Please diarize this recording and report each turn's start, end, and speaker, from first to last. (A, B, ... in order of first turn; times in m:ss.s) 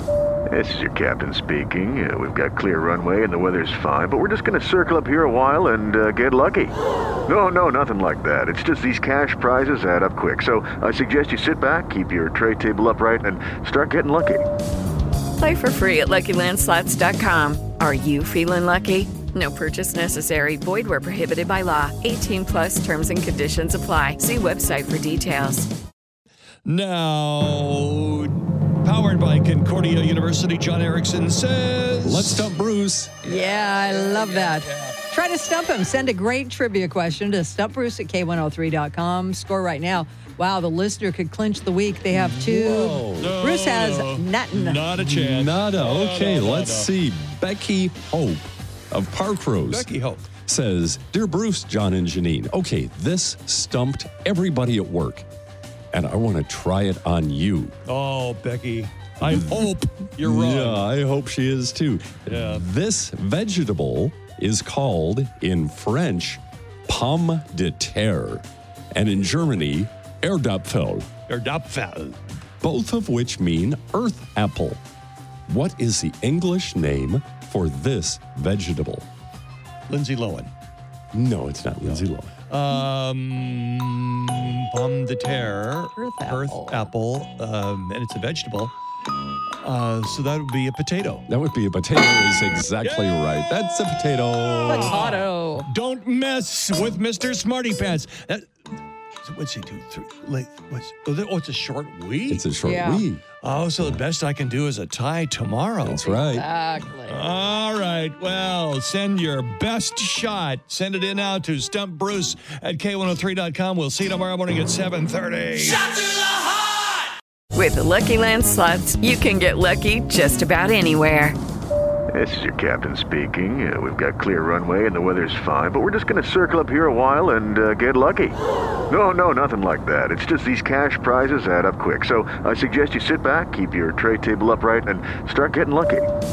0:00.5-0:06.8 A
0:07.3-0:14.5 A
0:15.4-0:25.7 B
0:26.6-0:32.5 C
0:32.0-0:33.2 D
0:33.2-0:44.9 E
0:33.3-0:35.0 C
0:42.2-0:43.4 D
0:43.2-0:46.9 C
0:45.0-0:49.9 D
0:49.7-0:50.3 C
0:50.5-0:55.3 D
0:55.9-0:57.8 D
0:57.9-1:00.9 C
0:59.2-0:59.7 D
1:00.2-1:11.1 D
1:02.3-1:02.7 C
1:11.3-1:12.2 C
1:12.6-1:14.8 D
1:15.5-1:19.1 D
1:19.9-1:20.5 C
1:21.1-1:22.3 D
1:21.8-1:28.7 C
1:26.0-1:26.9 E
1:29.6-1:31.3 C
1:31.3-1:35.2 D
1:32.8-1:33.3 C
1:34.4-1:38.5 C
1:34.7-1:35.7 E
1:39.2-1:42.5 C
1:42.3-1:43.2 D
1:42.6-1:43.0 E
1:43.4-1:46.0 C
1:45.8-1:46.5 D
1:46.0-1:47.2 E
1:47.0-1:56.0 C
1:57.5-2:01.4 B
2:02.1-2:08.4 A
2:08.9-2:16.1 A